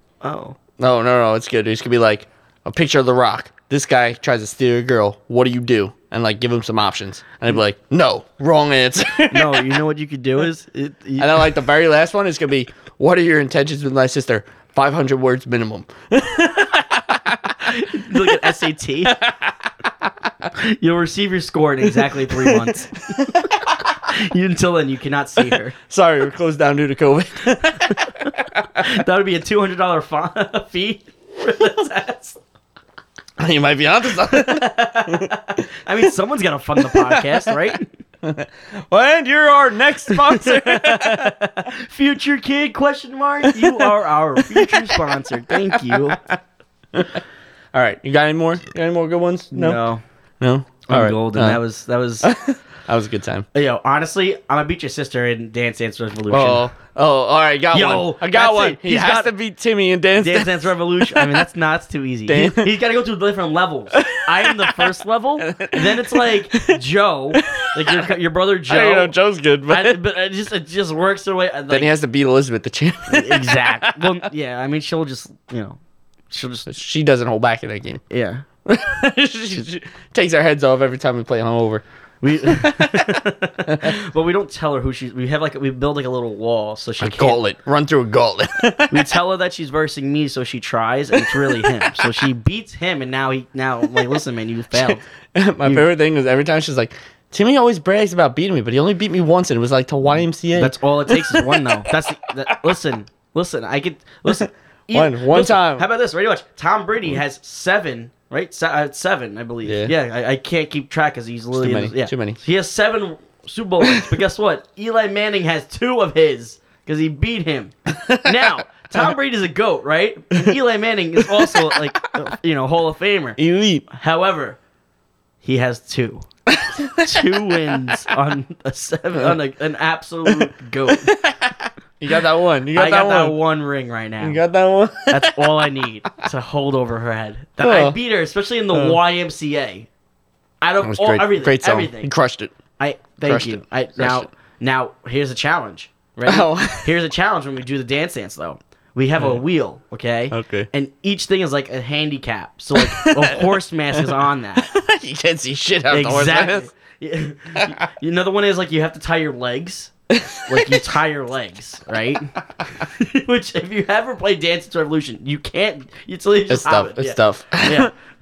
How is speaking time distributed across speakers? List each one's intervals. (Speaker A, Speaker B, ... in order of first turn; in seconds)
Speaker A: 0.2-0.6, 9.3-11.6, 17.6-19.2, 20.5-25.8, 27.6-32.4, 34.2-37.9, 40.1-46.2, 49.5-50.0, 50.9-52.3, 53.5-56.7, 57.7-59.3, 60.2-69.2, 69.7-71.9, 73.1-75.8, 76.3-76.7, 78.1-78.4, 82.2-87.4, 88.9-95.0, 100.6-124.6, 125.4-126.3, 127.0-131.1, 132.7-134.4, 135.1-139.9, 140.6-142.1, 142.8-154.7, 155.9-167.9
Speaker B: 0.8-9.8, 11.2-18.4, 19.1-19.5, 22.0-23.7, 25.9-28.9, 33.4-35.6, 36.8-37.6, 38.2-41.5, 43.4-46.4, 46.9-47.2, 47.7-49.8, 50.4-51.6, 52.2-53.5, 56.3-61.5, 62.3-62.7, 63.9-66.8, 67.3-68.1, 68.7-70.0, 71.7-74.3, 76.7-78.0, 78.7-81.8, 82.4-83.9, 87.0-89.2, 91.2-92.2, 94.7-102.0, 104.3-105.9, 109.7-109.9, 111.5-112.4, 113.8-114.2, 117.9-119.1, 121.2-121.9, 123.4-123.8, 126.5-128.1, 130.3-133.4, 134.2-135.8, 137.6-138.0, 138.7-139.0, 140.8-142.5, 143.2-144.3, 146.3-146.9, 150.3-150.7, 152.7-156.7, 160.1-160.9, 166.5-167.9